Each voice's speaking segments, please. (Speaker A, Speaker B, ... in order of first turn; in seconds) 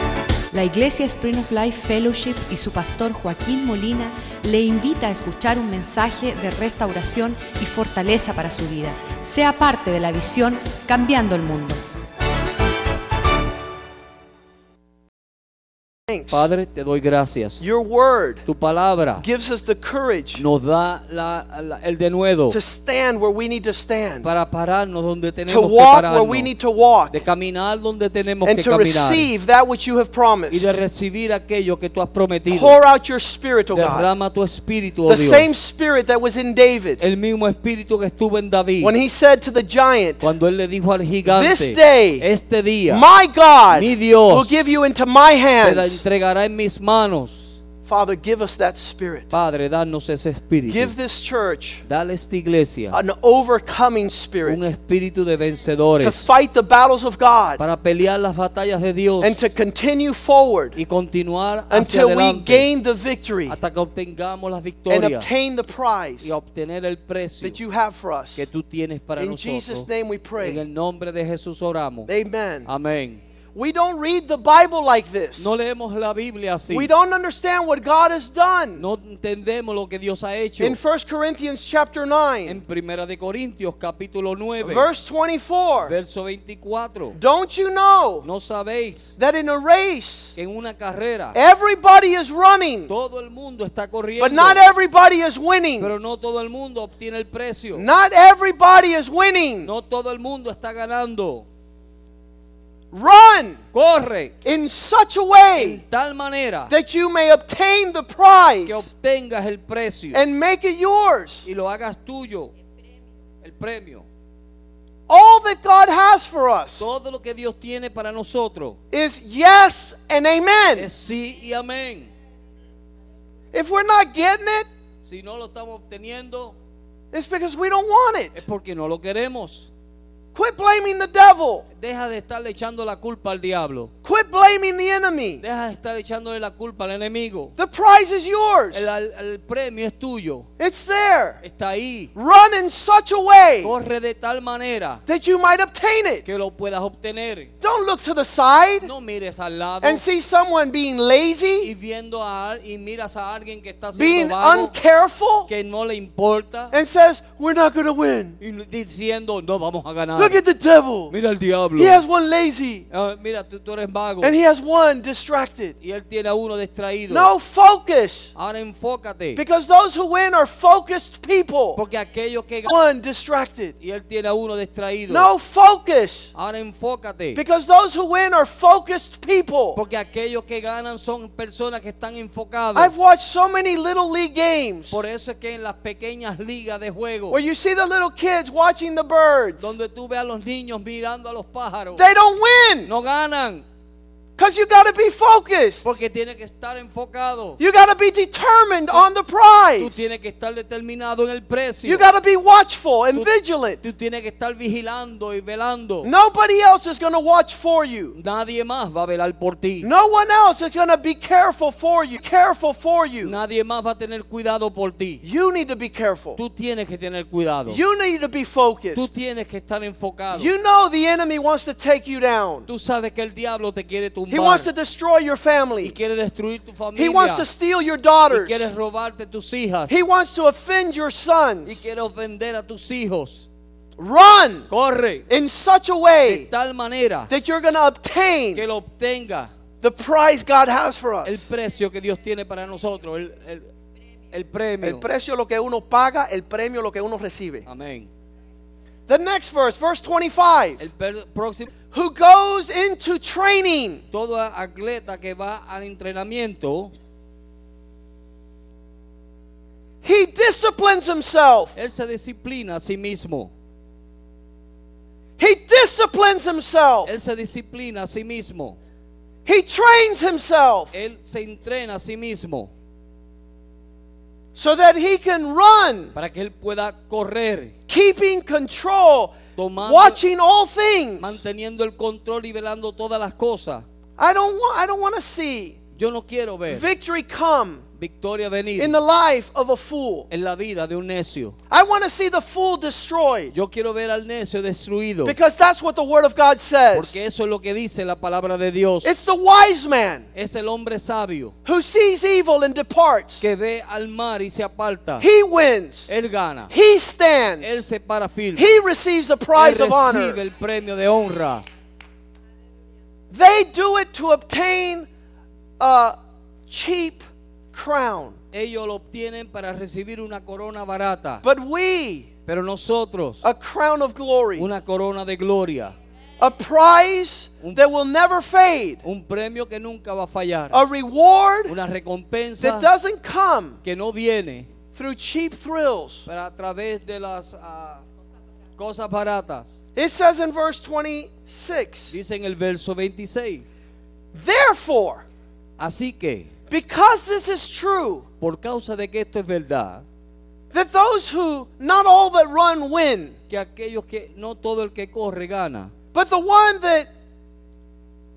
Speaker A: 0.5-11.8
Speaker B: 16.1-16.4, 17.6-18.4, 19.2-20.4, 22.5-24.2, 25.5-27.2, 28.4-30.7, 32.5-34.1, 35.1-37.0, 38.8-40.2, 41.3-42.2, 42.9-46.0, 47.9-49.3, 50.7-51.8, 52.9-54.6, 56.0-57.6, 59.2-60.8, 61.7-63.5, 64.9-66.3, 67.4-68.5, 69.2-70.6, 72.1-72.7, 73.5-75.5, 76.7-78.8, 80.6-82.6, 84.6-85.9, 87.1-88.2, 89.2-90.3, 91.3-92.9, 94.2-95.9, 97.7-99.7, 102.9-103.6, 104.4-105.8, 106.7-108.9, 110.1-111.5, 115.1-116.9, 118.9-120.9, 123.5-124.7, 127.1-128.4, 130.3-131.7, 134.0-135.4, 137.6-138.8, 140.6-141.4, 142.2-143.7, 145.1-146.2, 147.6-148.9, 149.8-151.7, 153.9-155.5, 156.7-158.4, 160.2-161.1, 161.8-162.9, 164.2-165.8, 167.1-168.3, 169.3-171.8, 172.7-173.8, 175.1-176.3, 177.3-179.8, 182.7-185.0, 187.3-189.7, 191.9-192.9, 194.4-195.8, 197.6-200.0, 201.8-203.8, 206.0-208.2, 209.8-213.3, 215.2-216.4, 217.7-219.1, 220.3-222.7, 224.3-225.9, 226.9-228.7, 229.9-231.8, 234.0-234.7, 235.3-236.5, 237.3-238.6, 239.8-241.4, 244.8-247.7, 249.1-250.8, 251.9-254.0, 260.0-261.7, 265.4-267.1, 269.4-270.9, 274.5-276.1, 277.9-281.4, 284.2-285.8, 286.7-287.8, 288.8-290.3, 291.7-293.5, 295.2-297.2, 299.0-300.3, 301.6-303.4, 305.2-306.1, 306.7-307.8, 308.6-310.4, 313.3-315.1, 315.8-316.2, 316.7-318.4, 321.4-322.3, 323.4-324.7, 326.4-329.0, 330.7-331.7, 332.6-333.8, 334.9-336.3, 339.9-342.1, 344.3-345.2, 346.7-348.2, 350.7-353.4, 356.1-357.1
Speaker C: 16.3-17.6, 18.4-19.2, 20.3-22.6, 24.2-26.5, 27.1-29.3, 30.5-32.8, 33.7-35.5, 37.0-38.9, 40.2-43.0, 43.7-44.5, 45.6-47.5, 49.3-50.9, 51.8-53.0, 54.4-56.3, 57.6-59.4, 60.7-62.7, 63.5-65.3, 66.2-67.6, 68.3-69.9, 70.4-72.1, 72.7-73.2, 75.4-76.9, 78.8-80.8, 82.4-84.9, 85.8-87.2, 88.2-89.2, 90.3-91.4, 92.9-94.6, 95.8-97.9, 99.6-101.4, 103.7-104.3, 105.5-106.7, 108.6-110.2, 111.4-112.5, 113.4-114.0, 116.8-118.8, 120.8-122.1, 125.0-126.5, 128.3-129.7, 131.7-133.9, 135.4-137.6, 138.7-140.5, 141.4-142.1, 143.6-145.0, 146.2-147.5, 148.8-150.0, 151.6-154.8, 155.5-156.8, 158.4-160.4, 161.1-162.0, 162.9-164.3, 165.8-167.3, 168.3-169.4, 171.7-172.7, 173.8-175.3, 176.3-177.4, 179.7-182.9, 184.9-187.4, 189.6-192.0, 192.8-193.6, 195.8-197.6, 199.8-202.1, 203.1-206.1, 208.1-209.9, 213.2-215.2, 216.3-217.8, 218.9-220.5, 222.7-224.7, 225.8-227.5, 228.3-230.0, 231.6-233.5, 234.7-235.3, 236.2-237.3, 238.5-239.5, 241.2-243.7, 244.3-245.1, 247.7-248.1, 250.8-251.7, 254.1-256.9, 261.7-263.5, 267.1-268.8, 270.9-272.7, 276.1-277.7, 279.6-280.2, 281.2-283.8, 285.9-286.9, 287.9-289.0, 290.3-291.6, 293.5-295.4, 296.9-299.1, 300.3-301.5, 303.4-305.3, 306.1-306.7, 307.6-308.7, 309.5-311.6, 318.5-321.4, 322.5-323.4, 324.5-325.9, 329.0-330.8, 331.6-332.9, 333.8-334.7, 336.2-338.0, 338.8-339.7, 342.1-343.6, 345.8-346.5, 348.4-350.0, 353.5-355.9